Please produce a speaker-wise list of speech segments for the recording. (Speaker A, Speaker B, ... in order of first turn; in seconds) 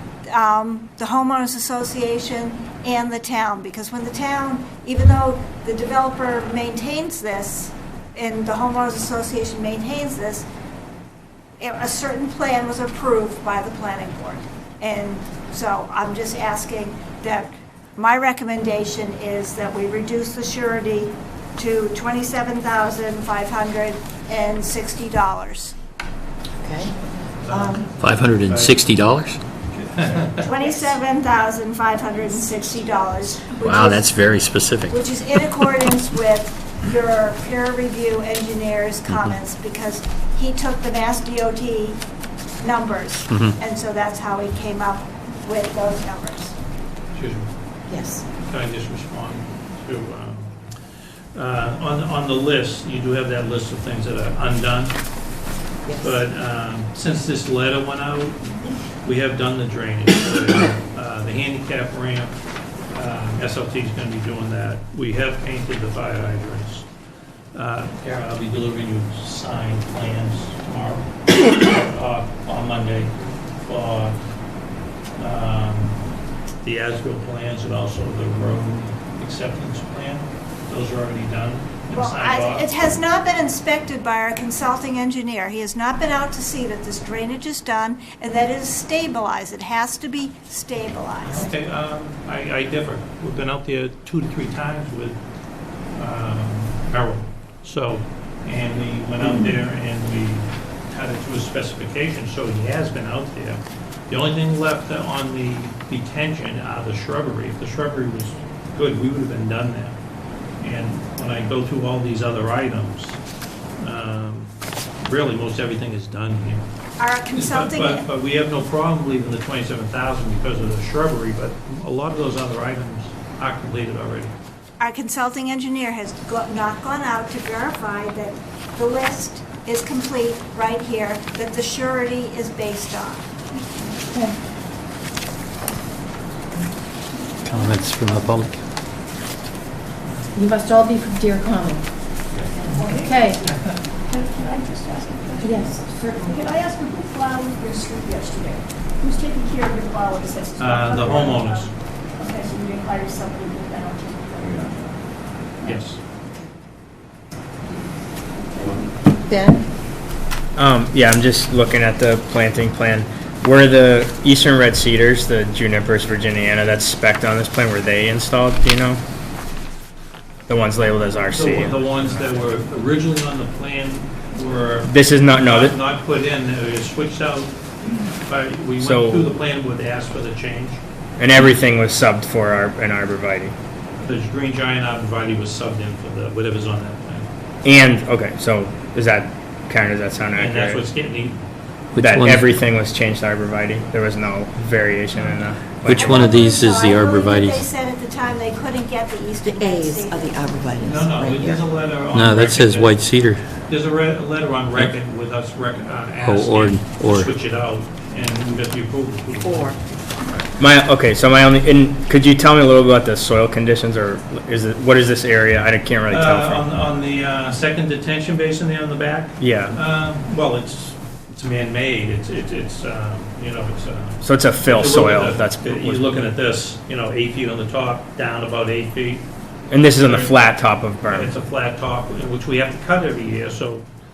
Speaker A: 0.3-10.4, 11.6-25.7, 30.4-42.0, 42.6-46.5, 81.9-91.5, 117.0-118.0, 124.8-133.3, 195.9-200.7
Speaker B: 26.6-27.9, 47.9-48.2, 55.9-56.1, 134.1-134.3, 140.3-141.8, 142.9-143.4, 145.4-146.3, 159.3-159.6, 199.4-201.6, 209.4-209.7
Speaker C: 27.4-28.9, 29.7-30.5, 47.1-47.5, 48.5-50.7, 51.2-55.0, 56.0-58.5, 59.0-62.3, 62.9-66.8, 67.5-74.2, 75.2-76.0, 76.6-82.8, 91.2-95.2, 96.0-110.0, 110.6-113.2, 113.8-116.7, 117.3-124.3, 142.3-142.8, 150.6-151.7, 155.6-156.0, 171.3-180.8, 184.0-187.3, 190.4-191.4, 200.8-210.4, 216.1-229.2, 229.9-230.4, 231.1-233.8
Speaker D: 28.0-29.4, 33.6-35.0, 137.4-138.5, 191.9-192.5, 195.8-197.6, 202.1-203.4, 206.2-207.3
Speaker E: 142.6-154.8, 155.6-155.9, 158.3-159.4
Speaker F: 160.6-169.0, 170.5-172.1, 174.9-175.7, 178.8-179.3, 181.2-183.5, 187.6-190.8, 191.9-196.3, 210.6-216.7, 219.4-219.8, 224.2-226.3, 229.7-231.3